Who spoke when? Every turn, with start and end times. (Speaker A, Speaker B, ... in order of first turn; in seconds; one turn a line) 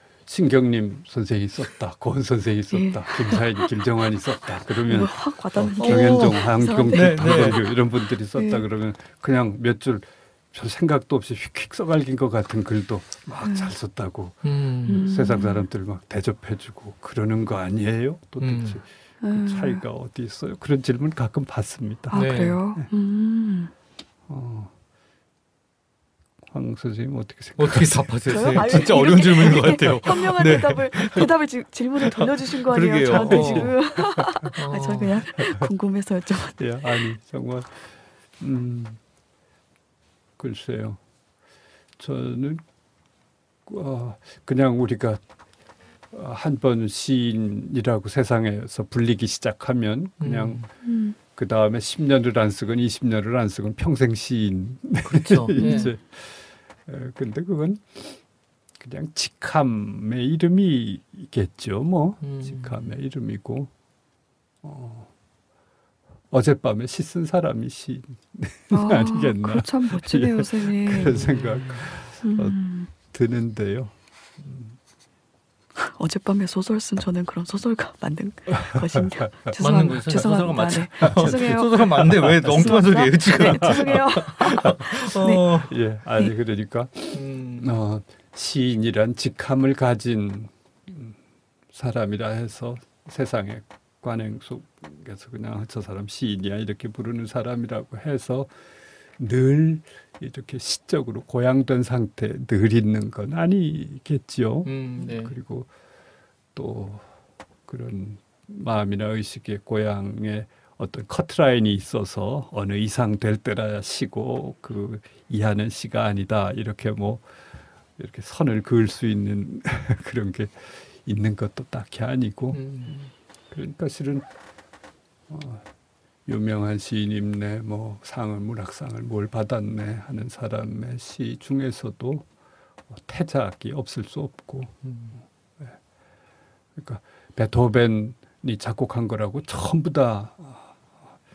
Speaker A: 0.3-22.9
Speaker B: 2.7-3.6
Speaker B: 4.8-7.7
Speaker C: 5.8-6.4
Speaker C: 6.9-7.6
Speaker B: 8.3-8.6
Speaker B: 13.4-13.7
Speaker C: 14.4-15.0
Speaker B: 14.9-15.6
Speaker C: 18.4-18.8
Speaker B: 19.2-19.8
Speaker B: 22.1-23.7
Speaker C: 22.1-22.6
Speaker A: 24.3-24.7
Speaker A: 26.5-30.0
Speaker C: 27.6-31.3
Speaker B: 28.3-37.0
Speaker C: 32.0-33.7
Speaker A: 33.0-34.5
Speaker C: 34.5-35.2
Speaker A: 36.6-39.0
Speaker A: 40.4-41.0
Speaker A: 42.0-42.6
Speaker A: 43.6-45.2
Speaker A: 46.1-50.7
Speaker C: 50.2-50.6
Speaker B: 50.8-51.2
Speaker A: 51.3-58.2
Speaker C: 55.0-55.9
Speaker B: 55.6-55.9
Speaker A: 58.8-63.7
Speaker C: 62.2-62.7
Speaker A: 64.6-65.1
Speaker A: 66.3-74.8
Speaker B: 68.7-71.3
Speaker C: 70.9-71.8
Speaker B: 72.2-72.9
Speaker B: 75.8-85.5
Speaker A: 78.6-80.3
Speaker C: 79.6-85.7
Speaker A: 81.0-85.1
Speaker A: 85.6-91.2
Speaker C: 87.1-87.7
Speaker A: 91.7-98.5
Speaker A: 99.2-105.7
Speaker C: 104.6-105.3
Speaker A: 106.5-107.1
Speaker A: 107.7-117.2
Speaker A: 118.0-124.2
Speaker C: 122.5-122.9
Speaker A: 125.3-125.7
Speaker A: 126.2-132.3
Speaker A: 132.9-134.8
Speaker C: 134.8-135.2
Speaker A: 136.8-140.9